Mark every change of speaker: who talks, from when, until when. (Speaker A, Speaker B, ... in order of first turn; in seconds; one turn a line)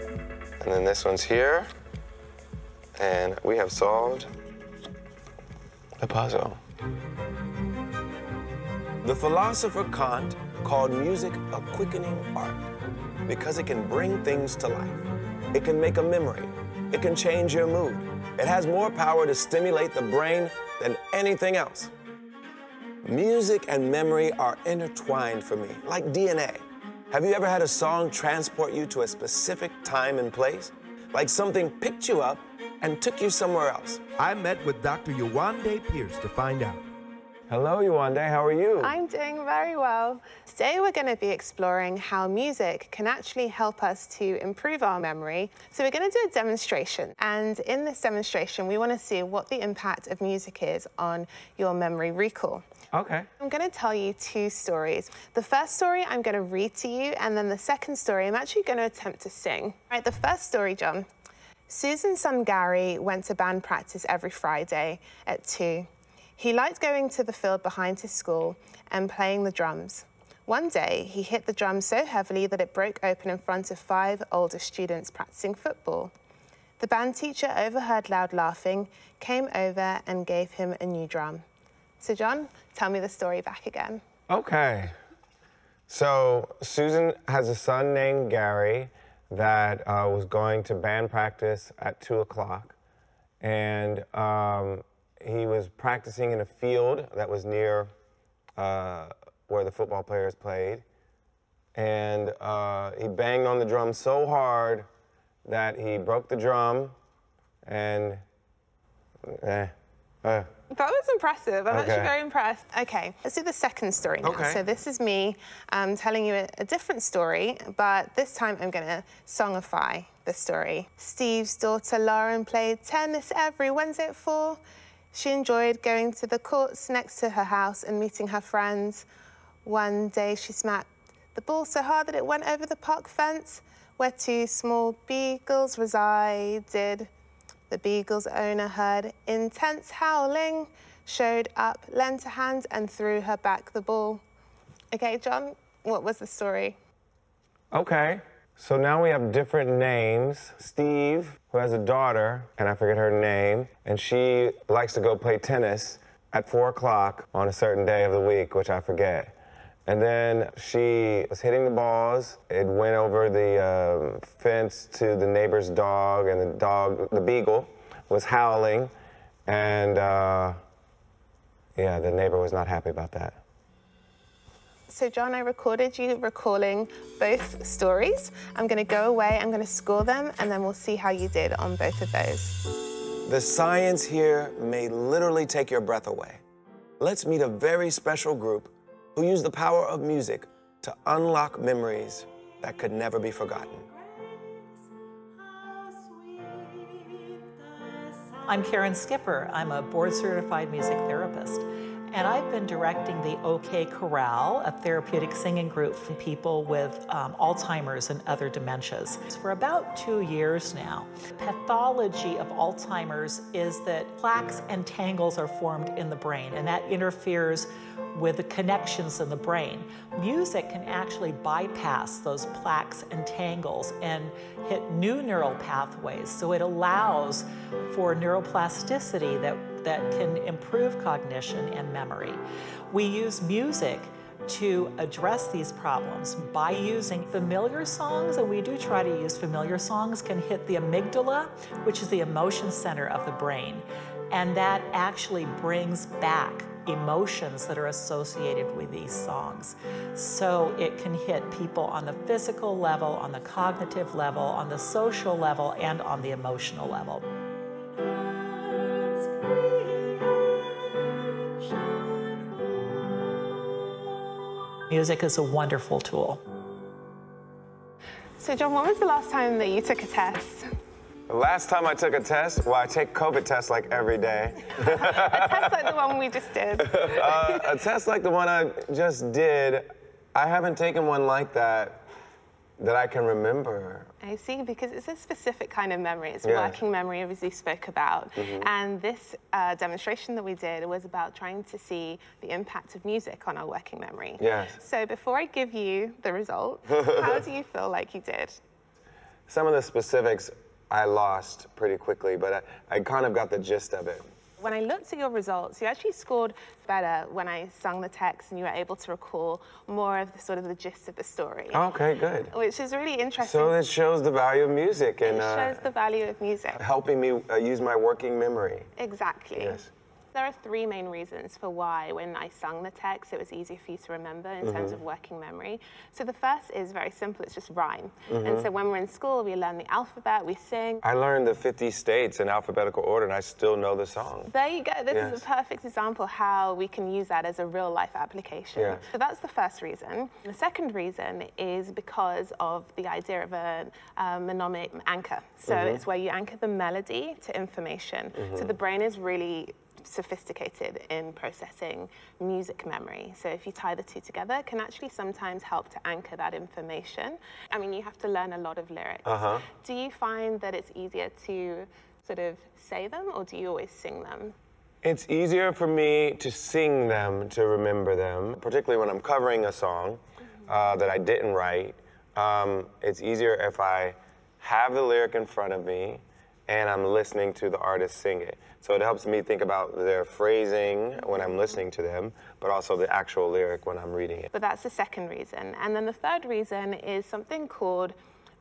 Speaker A: 0.6-1.7
Speaker A: 3.0-4.3
Speaker A: 6.0-6.6
Speaker A: 9.0-12.7
Speaker A: 13.2-21.9
Speaker A: 23.0-34.3
Speaker B: 34.2-36.8
Speaker A: 37.5-39.0
Speaker C: 38.8-52.6
Speaker A: 52.9-53.3
Speaker C: 53.4-61.1
Speaker C: 61.7-76.1
Speaker C: 76.8-81.4
Speaker C: 82.0-84.0
Speaker A: 84.3-84.9
Speaker A: 85.9-92.8
Speaker A: 93.4-97.9
Speaker A: 98.6-100.8
Speaker A: 101.7-104.9
Speaker A: 105.4-106.9
Speaker A: 107.6-108.2
Speaker A: 109.2-109.7
Speaker C: 110.7-129.1
Speaker A: 111.7-112.1
Speaker A: 114.2-114.6
Speaker C: 129.6-137.1
Speaker C: 137.7-144.2
Speaker C: 144.9-146.8
Speaker A: 147.7-159.3
Speaker A: 159.9-168.9
Speaker A: 169.5-170.6
Speaker A: 171.8-173.4
Speaker C: 174.9-182.6
Speaker A: 183.2-186.4
Speaker A: 187.0-193.9
Speaker D: 194.1-194.7
Speaker D: 195.5-257.3
Speaker D: 258.1-262.8
Speaker D: 264.9-266.4
Speaker C: 268.4-270.6
Speaker A: 271.3-275.8
Speaker C: 274.7-277.7
Speaker A: 276.9-282.0
Speaker A: 282.8-284.1
Speaker C: 284.2-298.6
Speaker A: 286.4-286.8
Speaker A: 288.4-288.7
Speaker A: 294.4-294.8
Speaker A: 296.9-297.3
Speaker A: 299.5-304.2
Speaker C: 304.6-311.8
Speaker A: 311.7-312.5
Speaker C: 312.5-313.8
Speaker A: 313.4-315.8
Speaker C: 315.2-316.8
Speaker A: 316.8-318.9
Speaker C: 318.9-319.8
Speaker A: 319.6-319.9
Speaker C: 320.3-331.0
Speaker A: 324.6-325.0
Speaker A: 328.3-328.7
Speaker A: 331.0-334.5
Speaker C: 334.5-364.6
Speaker A: 335.1-335.4
Speaker A: 338.7-339.0
Speaker A: 345.7-346.0
Speaker A: 348.4-348.7
Speaker A: 359.2-359.6
Speaker A: 365.0-384.5
Speaker C: 381.4-381.6
Speaker C: 384.5-388.1